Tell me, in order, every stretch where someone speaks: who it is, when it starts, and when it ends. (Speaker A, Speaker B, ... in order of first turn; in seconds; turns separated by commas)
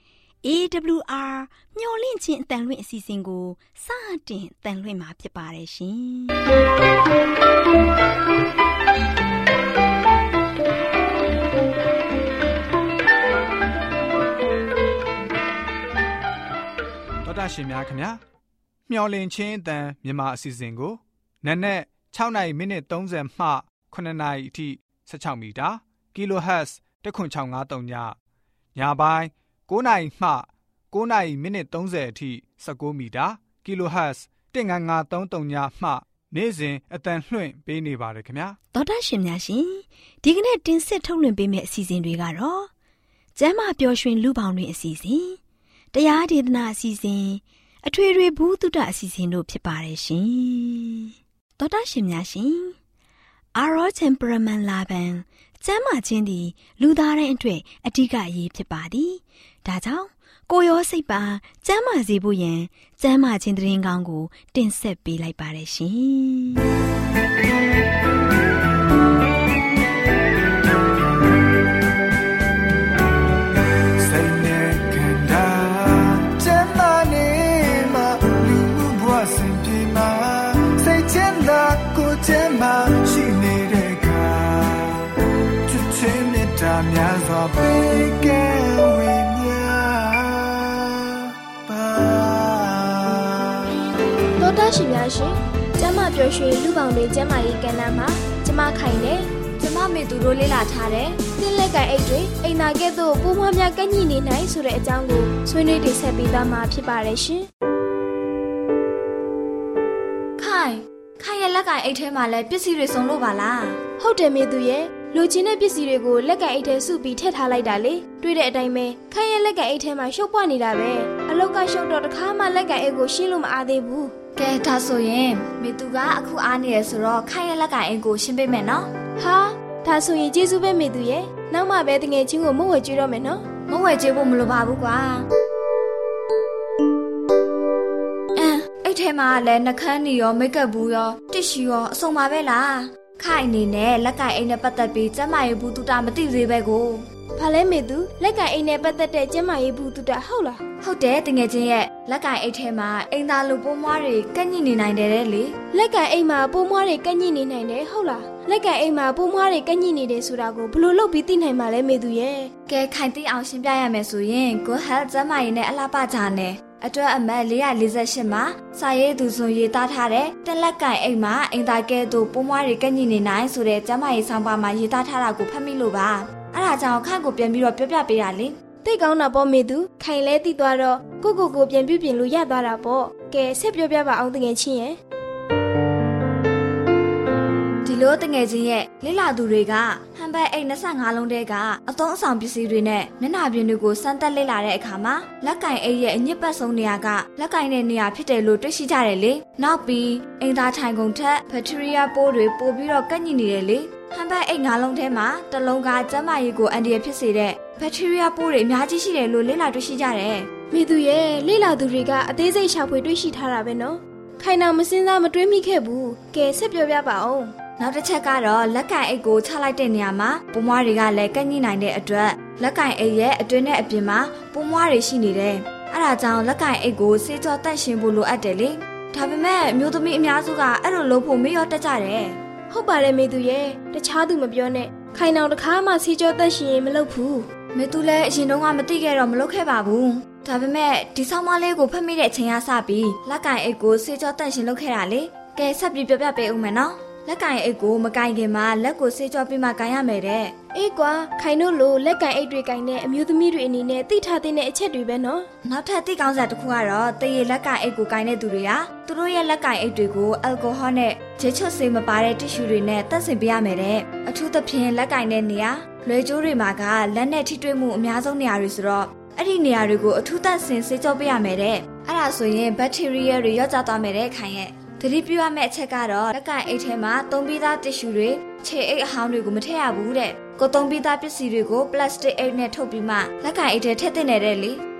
Speaker A: 0.4-6.4, Speaker B: 17.2-18.2, Speaker B: 18.9-28.1, Speaker B: 28.7-38.6, Speaker A: 38.7-42.7, Speaker A: 43.4-45.4, Speaker A: 45.9-52.7, Speaker A: 53.5-66.6, Speaker C: 74.0-85.0, Speaker C: 85.7-93.7, Speaker D: 94.4-99.2, Speaker E: 99.6-101.2, Speaker D: 101.4-107.5, Speaker E: 110.4-113.8, Speaker D: 114.0-124.1, Speaker E: 124.4-128.9, Speaker D: 129.2-133.4, Speaker E: 133.7-135.2, Speaker E: 138.3-147.0, Speaker D: 147.4-150.6, Speaker E: 150.8-155.6, Speaker D: 155.7-162.5, Speaker E: 162.7-178.6, Speaker D: 178.8-185.0, Speaker E: 187.8-210.5, Speaker D: 210.7-217.4, Speaker E: 217.8-232.3, Speaker D: 232.7-237.4, Speaker E: 237.7-250.5, Speaker D: 250.7-255.5, Speaker E: 255.7-284.8